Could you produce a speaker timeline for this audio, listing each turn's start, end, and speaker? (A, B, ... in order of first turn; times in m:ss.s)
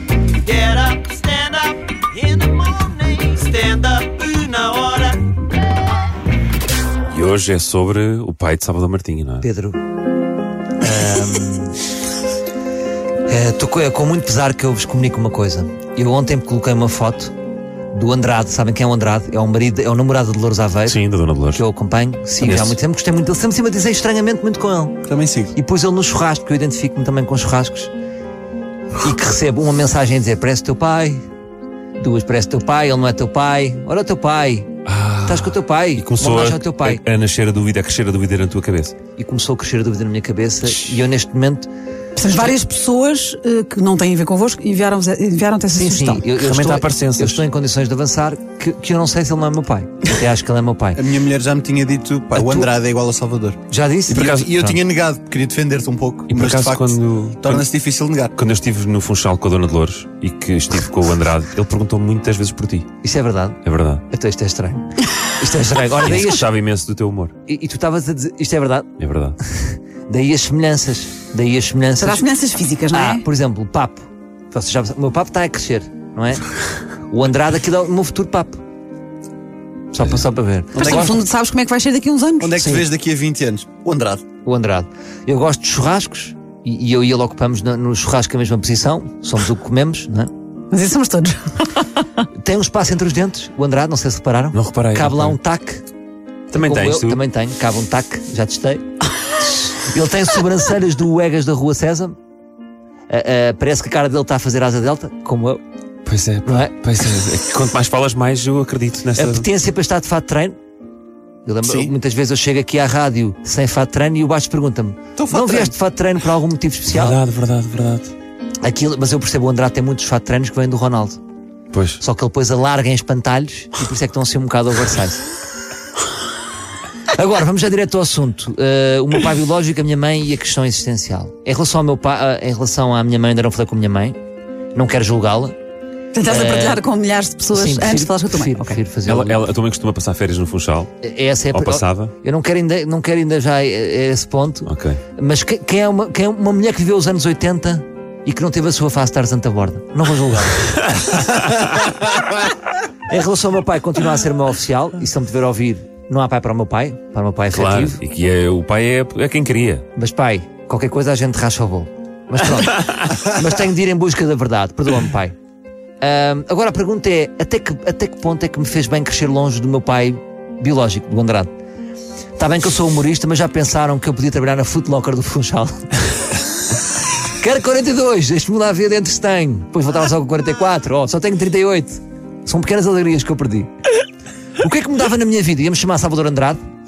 0:00.4-0:05.2 A
0:07.1-0:09.5 B
0:09.4-0:09.8 C
0:10.8-0:11.8 C
0:13.3-0:17.3 C
0:17.9-0:21.0 C
0:20.8-0:21.6 B
0:21.5-0:25.0 C
0:22.4-0:22.8 B
0:25.1-0:25.5 D
0:25.5-0:27.9 C
0:29.0-0:31.2 C
0:32.0-0:34.7 C
0:34.8-0:38.9 B
0:35.2-0:37.0 C
0:39.2-0:41.7 C
0:42.2-0:46.3 E
0:45.7-0:51.0 C
0:46.4-0:47.4 B
0:50.9-0:58.3 D
0:53.7-0:54.8 C
0:54.1-0:54.5 B
0:56.3-0:57.6 B
0:58.3-1:02.9 B
1:03.0-1:06.4 C
1:03.6-1:04.0 B
1:05.9-1:07.3 B
1:07.5-1:08.9 C
1:09.0-1:09.4 B
1:09.5-1:12.2 C
1:12.0-1:13.2 E
1:12.9-1:16.4 C
1:17.1-1:18.6 C
1:19.9-1:21.2 C
1:20.7-1:21.1 D
1:20.7-1:22.6 E
1:22.4-1:24.2 D
1:22.6-1:22.8 C
1:24.4-1:30.3 C
1:30.7-1:32.1 E
1:32.4-1:35.8 C
1:34.5-1:35.4 B
1:36.5-1:37.2 B
1:36.5-1:42.2 C
1:43.1-1:45.6 C
1:46.0-1:49.4 B
1:46.4-1:46.8 C
1:49.2-1:50.6 C
1:51.4-1:57.2 C
1:51.6-1:51.9 D
1:55.2-1:55.7 D
1:56.9-1:58.1 B
1:58.6-2:01.2 C
2:01.7-2:02.0 B
2:02.0-2:05.2 C
2:07.1-2:14.2 C
2:14.7-2:15.5 C
2:16.1-2:18.8 E
2:16.2-2:16.8 C
2:17.5-2:19.4 C
2:19.0-2:20.9 B
2:21.0-2:30.7 C
2:21.5-2:22.1 B
2:24.6-2:25.0 B
2:30.7-2:31.8 B
2:33.1-2:38.0 C
2:37.5-2:39.8 B
2:40.0-2:45.3 C
2:46.0-2:51.5 C
2:52.4-2:55.9 C
2:57.4-3:03.7 C
3:04.6-3:06.6 C